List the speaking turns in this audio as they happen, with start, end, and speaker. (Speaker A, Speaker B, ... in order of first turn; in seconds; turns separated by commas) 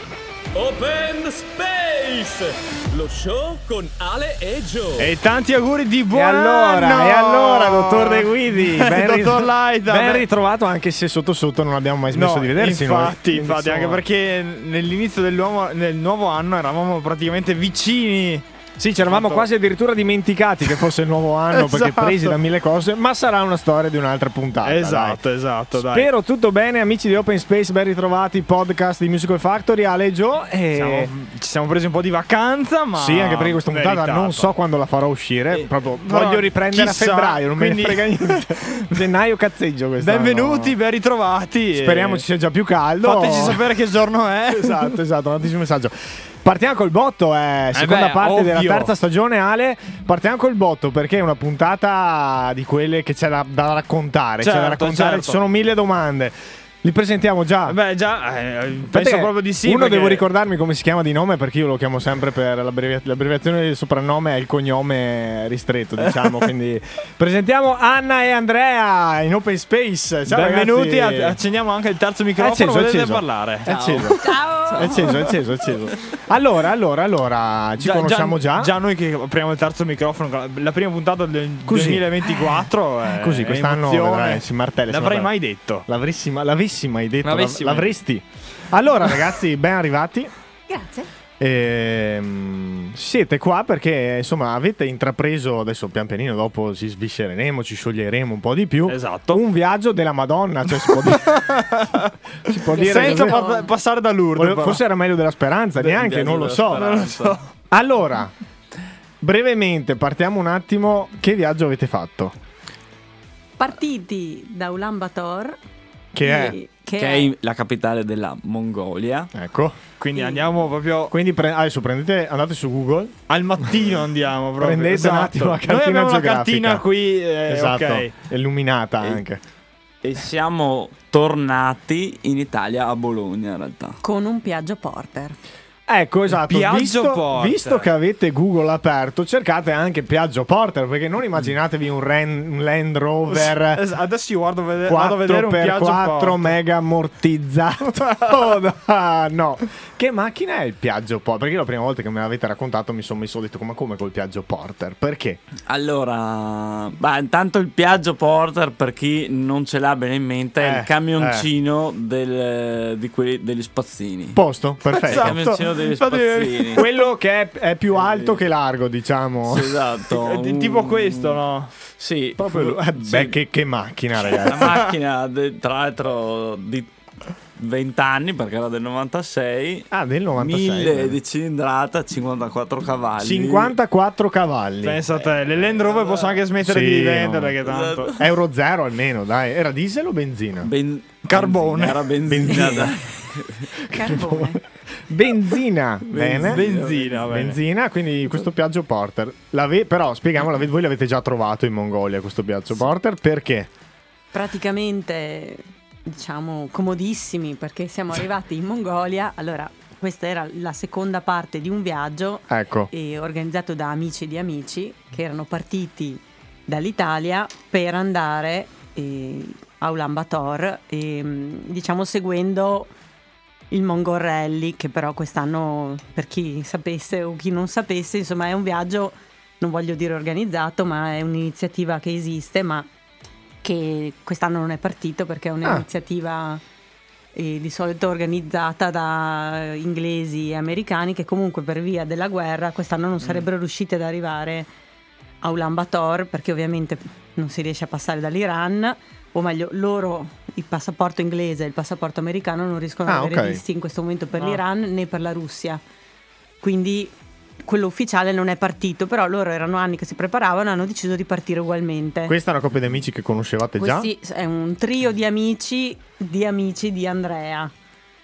Speaker A: 0.6-5.1, Speaker B: 5.0-10.3, Speaker C: 6.1-14.0, Speaker B: 12.1-18.4, Speaker C: 18.8-25.2, Speaker B: 19.1-19.4, Speaker B: 21.5-22.3, Speaker B: 24.6-26.1, Speaker C: 25.7-31.1, Speaker B: 30.7-34.5, Speaker C: 33.0-40.8, Speaker B: 35.5-38.8, Speaker B: 40.0-42.2, Speaker C: 41.7-43.6, Speaker B: 43.0-44.9, Speaker C: 44.5-57.8, Speaker B: 47.7-48.9, Speaker B: 54.4-55.4, Speaker B: 57.7-60.3, Speaker C: 58.9-71.4, Speaker B: 66.1-66.3, Speaker B: 70.3-75.4, Speaker C: 72.4-74.2, Speaker D: 74.2-75.1, Speaker C: 74.8-78.7, Speaker B: 77.8-85.9, Speaker C: 81.7-85.3, Speaker C: 85.9-90.3, Speaker B: 87.2-88.0, Speaker D: 90.7-91.1, Speaker C: 91.4-101.5, Speaker B: 98.9-99.4, Speaker B: 101.0-102.1, Speaker C: 102.5-103.4, Speaker B: 102.7-104.8, Speaker D: 102.7-103.7, Speaker C: 104.3-106.9, Speaker E: 105.8-107.4, Speaker B: 106.7-107.5, Speaker C: 107.7-108.3, Speaker C: 109.2-112.3, Speaker D: 113.6-115.6, Speaker C: 116.1-116.6, Speaker D: 116.2-117.3, Speaker E: 117.0-119.3, Speaker C: 119.3-119.8, Speaker B: 120.0-121.1, Speaker D: 120.2-120.5, Speaker C: 121.1-123.2, Speaker B: 123.3-128.1, Speaker C: 124.6-126.8, Speaker C: 127.5-129.4, Speaker E: 130.0-134.0, Speaker D: 134.0-135.4, Speaker C: 135.9-143.8, Speaker B: 136.3-137.9, Speaker B: 143.3-146.5, Speaker C: 144.8-155.4, Speaker E: 155.7-164.4, Speaker C: 160.6-161.5, Speaker C: 164.3-165.5, Speaker B: 165.0-166.9, Speaker E: 165.0-166.9, Speaker C: 166.7-169.8, Speaker E: 168.0-168.4, Speaker E: 169.4-171.4, Speaker B: 170.1-171.7, Speaker E: 171.9-173.3, Speaker C: 172.4-174.8, Speaker E: 174.4-176.9, Speaker E: 177.6-183.8, Speaker C: 179.9-181.2, Speaker C: 183.2-185.1, Speaker B: 184.8-188.2, Speaker E: 185.2-186.4, Speaker C: 186.6-187.6, Speaker E: 187.6-188.3, Speaker C: 188.2-190.7, Speaker E: 190.6-193.7, Speaker B: 191.3-192.1, Speaker C: 192.2-193.0, Speaker D: 193.9-194.6, Speaker C: 193.9-194.6, Speaker C: 195.1-196.7, Speaker E: 196.1-197.5, Speaker B: 196.3-197.6, Speaker C: 197.3-203.7, Speaker D: 204.3-222.9, Speaker C: 212.5-212.9, Speaker D: 223.7-232.9, Speaker D: 233.6-236.6, Speaker D: 237.3-244.7, Speaker D: 245.4-255.8, Speaker C: 253.1-253.6, Speaker D: 256.6-262.4, Speaker C: 262.3-264.1, Speaker D: 263.8-267.7